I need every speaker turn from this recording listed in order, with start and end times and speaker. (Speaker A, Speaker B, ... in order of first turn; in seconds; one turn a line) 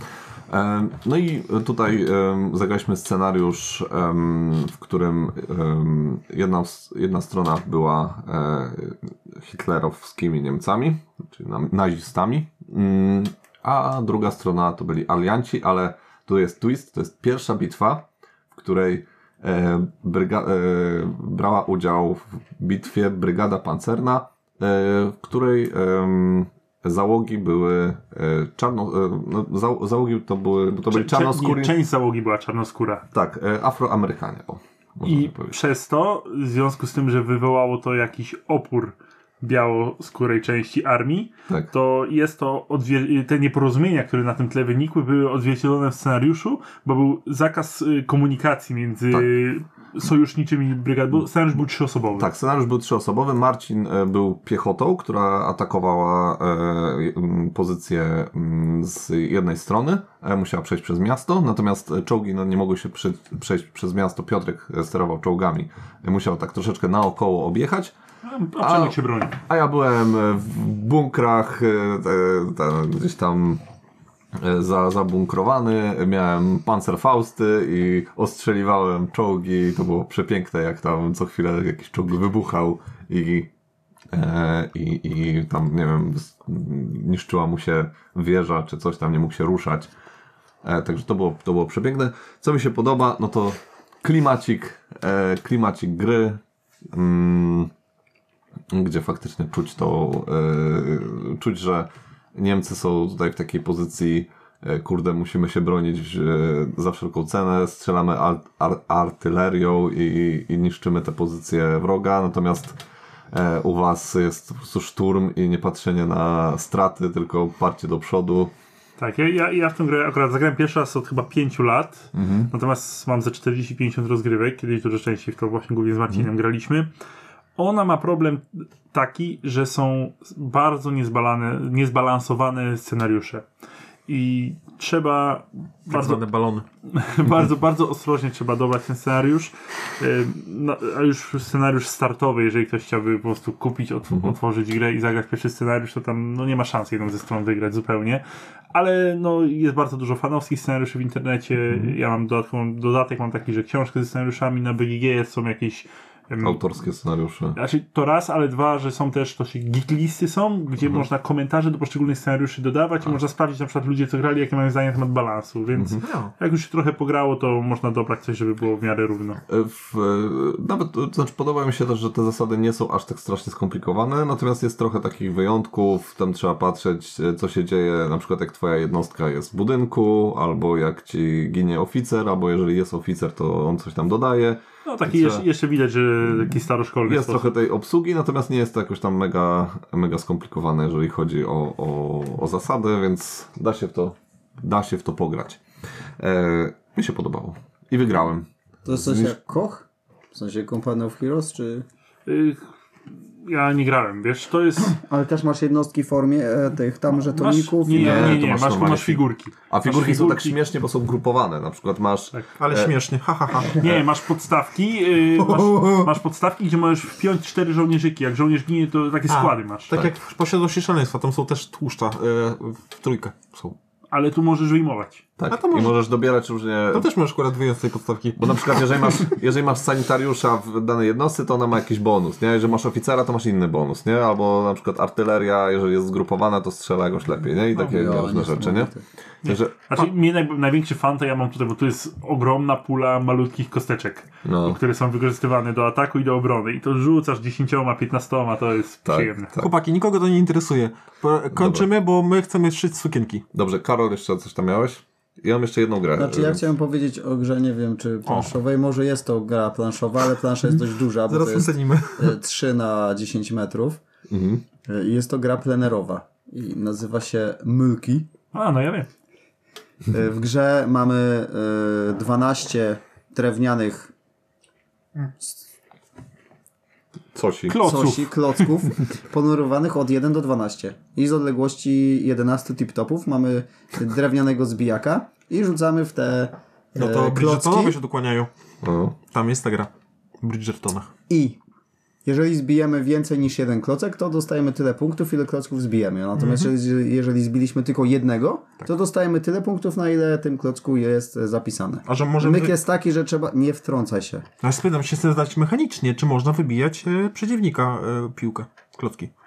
Speaker A: 0.5-31.8
Speaker B: 30.9-33.0
Speaker A: 33.1-35.5
Speaker B: 35.0-52.3
Speaker A: 52.2-67.9
Speaker B: 68.2-69.4
Speaker A: 68.6-73.6
Speaker A: 74.3-83.5
Speaker A: 84.1-89.9
Speaker A: 90.6-97.7
Speaker A: 98.7-112.8
Speaker A: 113.3-118.5
Speaker B: 119.0-126.9
Speaker A: 122.1-122.5
Speaker B: 127.6-133.4
Speaker B: 134.1-136.3
Speaker C: 135.9-136.6
Speaker B: 136.8-156.6
Speaker A: 144.1-144.3
Speaker A: 156.4-157.6
Speaker B: 157.5-169.4
Speaker A: 165.8-166.0
Speaker C: 166.0-166.3
Speaker A: 169.5-185.4
Speaker B: 184.8-187.5
Speaker A: 187.1-195.6
Speaker A: 196.2-199.3
Speaker D: 198.8-201.8
Speaker B: 202.2-202.6
Speaker B: 203.4-204.9
Speaker D: 204.9-208.4
Speaker B: 207.2-210.6
Speaker A: 207.9-213.0
Speaker C: 212.6-213.8
Speaker B: 213.7-219.9
Speaker A: 213.8-214.1
Speaker C: 215.4-216.1
Speaker C: 219.3-223.8
Speaker B: 224.1-225.2
Speaker A: 225.4-227.1
Speaker C: 225.5-226.0
Speaker C: 226.9-228.6
Speaker A: 228.4-238.9
Speaker D: 237.7-239.0
Speaker A: 239.4-239.7
Speaker B: 239.4-249.5
Speaker A: 244.4-244.8
Speaker A: 249.0-249.7
Speaker C: 249.6-253.4
Speaker A: 251.5-251.9
Speaker A: 253.5-256.6
Speaker D: 256.1-264.0
Speaker C: 261.3-262.3
Speaker A: 264.3-264.6
Speaker D: 264.9-268.3
Speaker B: 268.5-269.1
Speaker D: 270.1-274.1
Speaker A: 277.3-277.8
Speaker B: 277.7-278.8
Speaker D: 277.8-288.0
Speaker C: 286.9-288.5
Speaker A: 288.8-289.2
Speaker C: 289.3-289.9
Speaker C: 290.4-291.1
Speaker D: 291.3-291.6
Speaker D: 292.2-304.4
Speaker C: 296.4-296.7
Speaker C: 302.1-302.8
Speaker C: 304.6-309.3